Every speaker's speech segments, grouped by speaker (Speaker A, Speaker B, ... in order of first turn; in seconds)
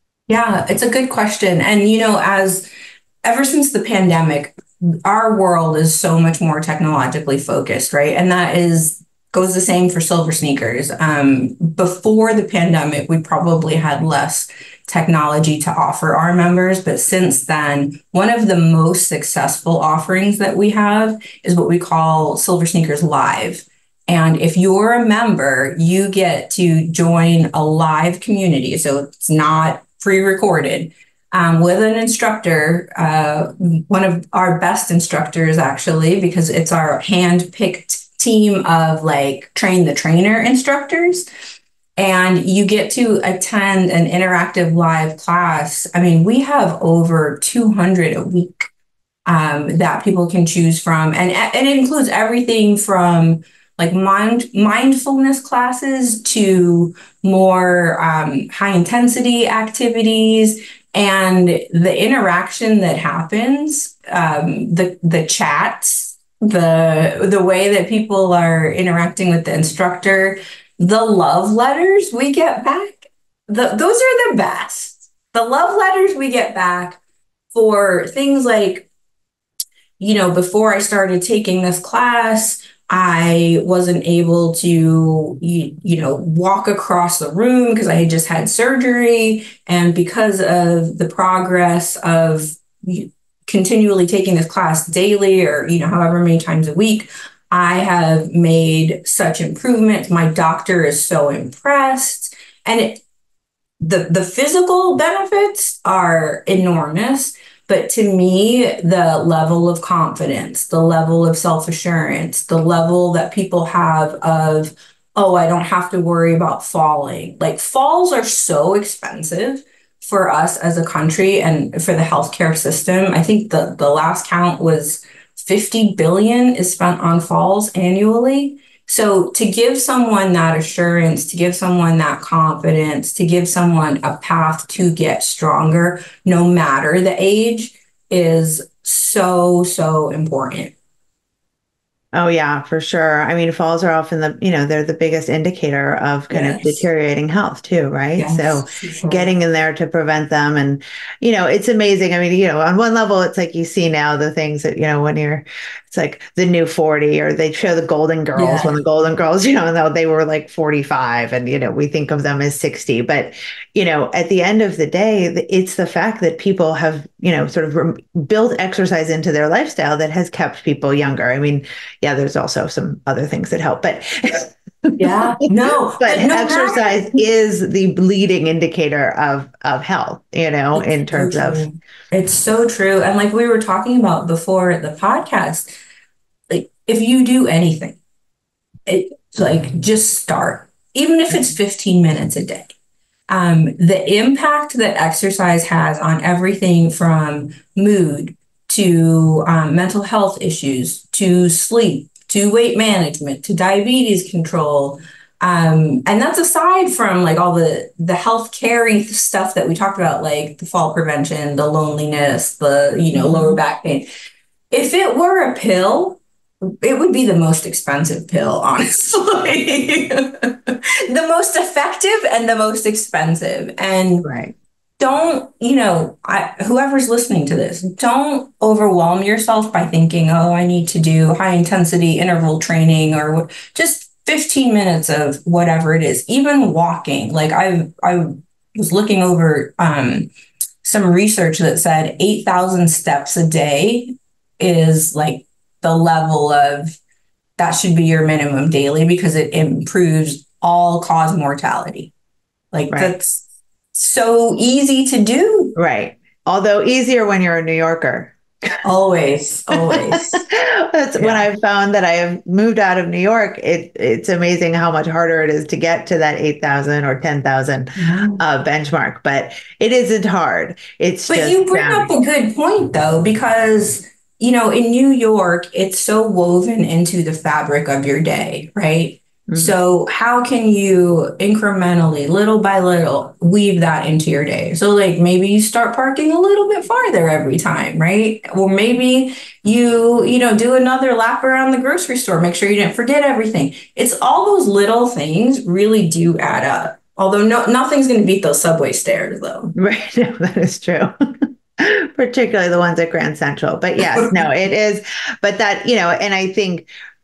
Speaker A: 0.3-2.6, 3.2-41.2, 42.0-48.7, 49.3-77.0, 77.5-78.9, 80.0-103.0, 103.8-140.7, 146.3-146.8, 148.2-149.3, 158.3-158.7, 175.0-177.2, 180.8-185.7, 186.5-188.0, 188.9-192.7, 193.3-214.1, 214.7-216.2, 216.8-224.3, 225.0-240.3, 240.8-247.0, 247.6-252.1, 252.7-253.4, 253.9-255.7, 258.8-260.4, 261.2-261.5, 268.0-268.4, 271.3-299.7, 304.1-304.3
Speaker B: 142.1-175.2, 175.9-181.6, 213.1-213.6, 224.2-224.5, 255.8-258.8, 259.7-272.1, 279.5-279.7, 299.7-301.1, 301.8-306.9